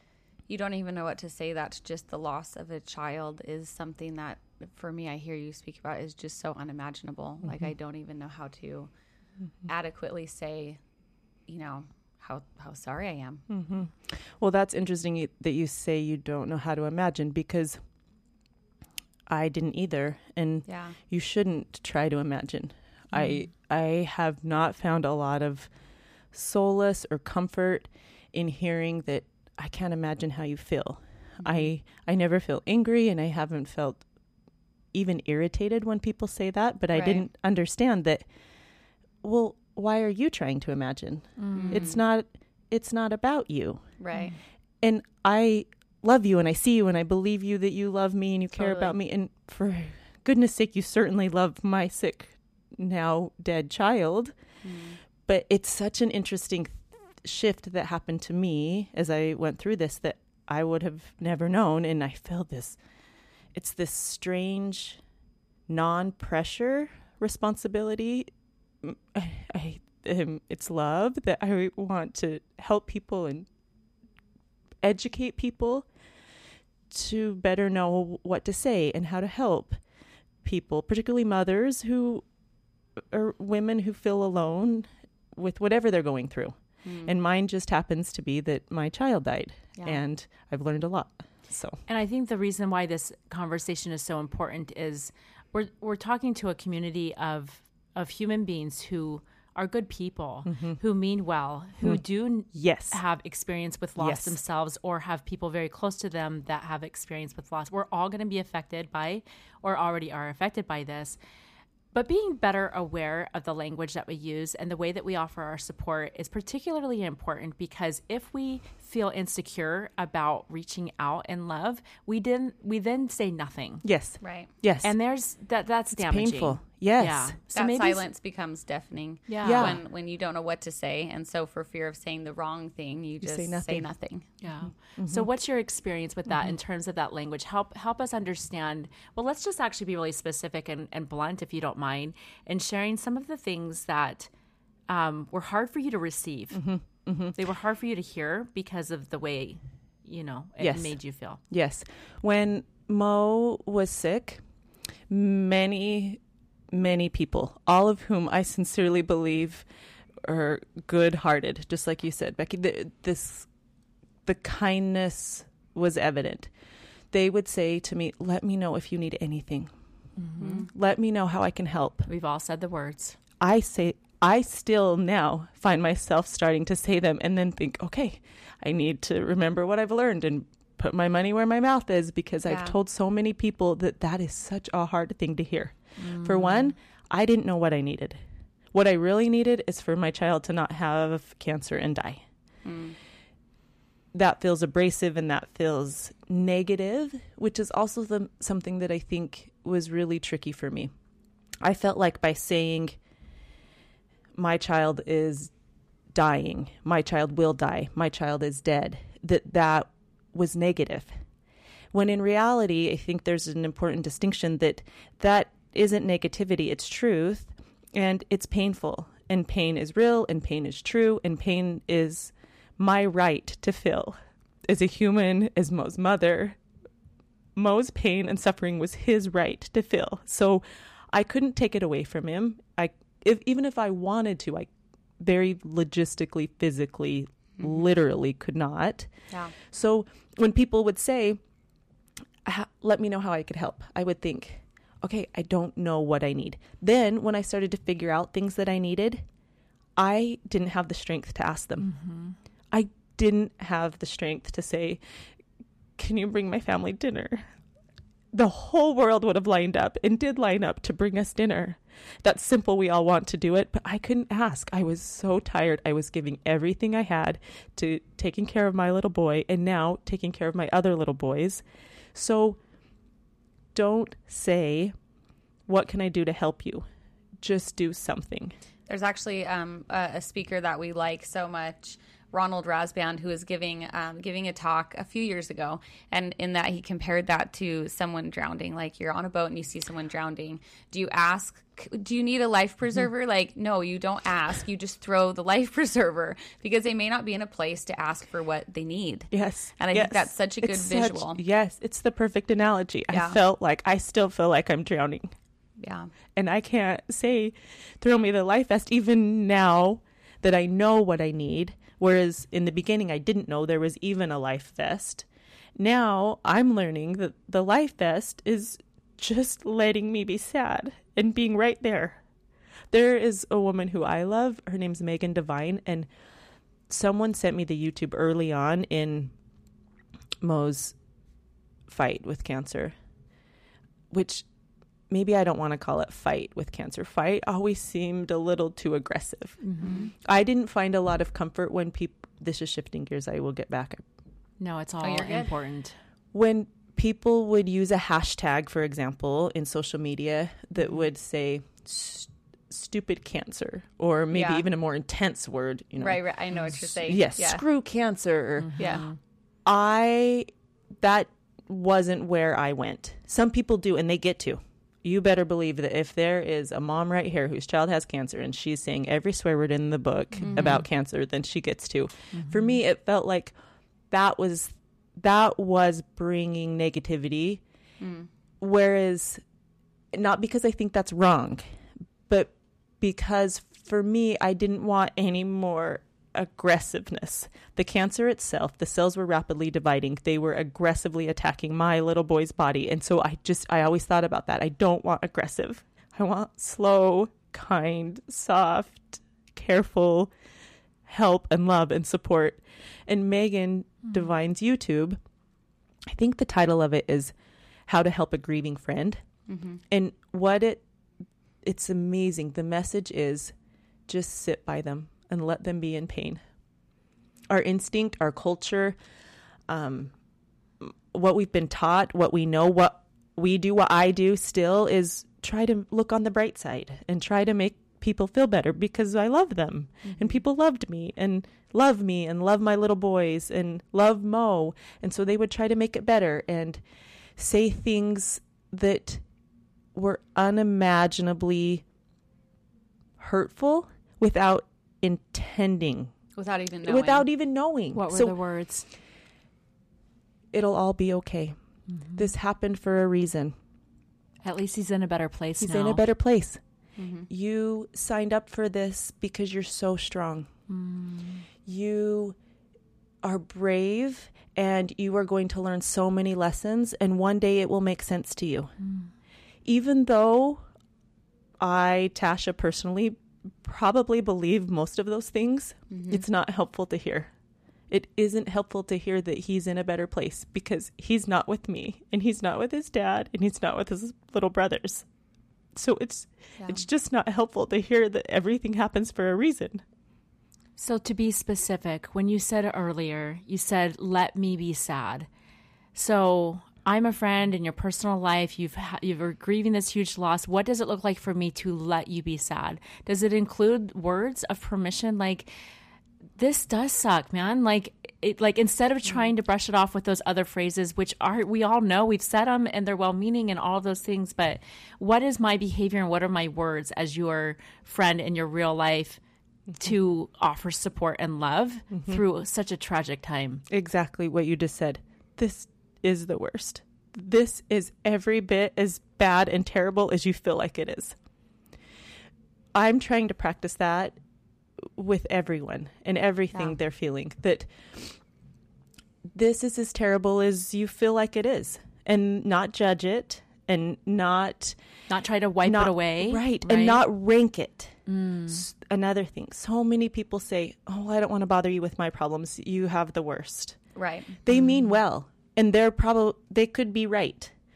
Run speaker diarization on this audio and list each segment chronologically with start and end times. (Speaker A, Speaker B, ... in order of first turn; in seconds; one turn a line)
Speaker A: 0.5-8.9
Speaker A: 9.7-10.8
Speaker A: 11.5-13.4
Speaker B: 13.5-17.8
Speaker B: 19.3-25.7
Speaker A: 20.7-21.0
Speaker B: 26.3-34.0
Speaker A: 31.4-31.7
Speaker B: 34.9-38.3
Speaker A: 36.9-37.2
Speaker B: 39.2-43.9
Speaker C: 41.4-41.9
Speaker A: 41.5-42.0
Speaker A: 44.0-44.3
Speaker B: 44.8-54.4
Speaker A: 48.6-48.9
Speaker A: 54.6-55.0
Speaker B: 55.3-62.8
Speaker B: 63.5-65.0
Speaker B: 65.7-68.3
Speaker B: 68.8-73.5
Speaker B: 74.8-75.9
Speaker B: 76.9-79.8
Speaker B: 80.4-82.2
Speaker B: 83.1-91.8
Speaker A: 86.8-87.1
Speaker C: 91.9-111.2
Speaker B: 100.5-100.8
Speaker B: 102.5-103.0
Speaker B: 104.0-104.4
Speaker C: 111.9-123.8
Speaker B: 123.8-124.9
Speaker A: 124.2-124.5
Speaker C: 124.8-128.0
Speaker B: 125.9-127.4
Speaker A: 127.5-134.3
Speaker C: 129.3-129.8
Speaker B: 129.4-129.8
Speaker B: 133.2-133.9
Speaker C: 134.4-144.3
Speaker B: 134.7-135.3
Speaker C: 144.9-146.6
Speaker B: 146.5-147.4
Speaker C: 147.3-151.4
Speaker B: 150.6-154.4
Speaker B: 155.1-156.2
Speaker B: 156.7-159.7
Speaker B: 160.2-163.5
Speaker B: 164.2-166.5
Speaker B: 167.1-169.7
Speaker C: 170.2-170.7
Speaker A: 170.4-170.7
Speaker B: 170.7-172.1
Speaker C: 172.1-173.2
Speaker B: 173.4-188.2
Speaker A: 182.4-182.8
Speaker C: 186.1-186.6
Speaker B: 188.7-192.2
Speaker A: 192.7-193.0
Speaker B: 194.1-200.9
Speaker B: 201.6-203.0
Speaker B: 204.3-205.5
Speaker B: 206.1-211.1
Speaker B: 211.9-226.6
Speaker B: 227.6-241.4
Speaker B: 242.4-249.2
Speaker B: 250.0-251.9
Speaker C: 251.8-252.4
Speaker B: 252.7-255.0
Speaker B: 256.0-257.4
Speaker B: 258.3-272.6
Speaker B: 273.7-274.9
Speaker B: 275.7-276.9
Speaker B: 277.4-278.6
Speaker A: 278.9-301.4
Speaker B: 299.3-305.3
Speaker A: 303.1-303.4
Speaker A: 305.8-306.1
Speaker B: 306.4-322.2
Speaker B: 322.9-326.1
Speaker B: 326.9-329.3
Speaker B: 330.4-330.9
Speaker B: 331.9-332.9
Speaker B: 334.1-334.4
Speaker B: 335.1-344.0
Speaker C: 339.6-340.1
Speaker A: 339.8-340.1
Speaker C: 344.6-346.0
Speaker A: 345.0-345.5
Speaker B: 346.3-358.9
Speaker A: 354.3-354.6
Speaker A: 356.0-357.6
Speaker C: 358.6-359.2
Speaker A: 358.8-359.0
Speaker B: 359.6-360.5
Speaker B: 361.0-373.6
Speaker A: 370.4-370.8
Speaker C: 370.5-370.9
Speaker C: 372.3-372.8
Speaker B: 374.1-377.6
Speaker A: 378.0-378.3
Speaker B: 378.6-379.4
Speaker B: 380.1-381.6
Speaker B: 382.3-400.3
Speaker B: 401.1-405.2
Speaker B: 406.1-407.3
Speaker B: 407.9-409.2
Speaker A: 409.5-409.8
Speaker B: 409.9-410.8
Speaker B: 411.6-413.5
Speaker B: 414.1-416.4
Speaker B: 417.5-419.0
Speaker B: 419.7-420.1
Speaker B: 420.8-436.8
Speaker A: 430.1-430.4
Speaker B: 437.4-439.2
Speaker B: 439.9-441.8
Speaker B: 443.2-446.1
Speaker A: 446.4-447.3
Speaker B: 446.8-448.4
Speaker C: 447.9-448.9
Speaker B: 450.5-451.6
Speaker B: 452.2-453.6
Speaker C: 454.4-456.0
Speaker B: 455.6-456.6
Speaker A: 457.0-457.3
Speaker B: 457.3-460.5
Speaker C: 460.7-461.4
Speaker B: 461.7-462.4
Speaker B: 463.2-468.7
Speaker C: 468.8-469.1
Speaker B: 469.6-470.6
Speaker B: 471.6-477.3
Speaker A: 475.9-476.2
Speaker B: 477.9-485.1
Speaker B: 485.8-489.8
Speaker A: 486.6-486.9
Speaker C: 490.8-495.3
Speaker C: 495.9-505.5
Speaker C: 506.4-519.2
Speaker C: 519.8-523.6
Speaker B: 523.7-531.2
Speaker B: 532.7-534.2
Speaker B: 534.8-538.1
Speaker B: 539.3-544.8
Speaker C: 545.1-547.0
Speaker B: 545.6-553.8
Speaker C: 548.1-548.6
Speaker A: 554.0-554.4
Speaker B: 554.4-557.5
Speaker C: 554.5-554.9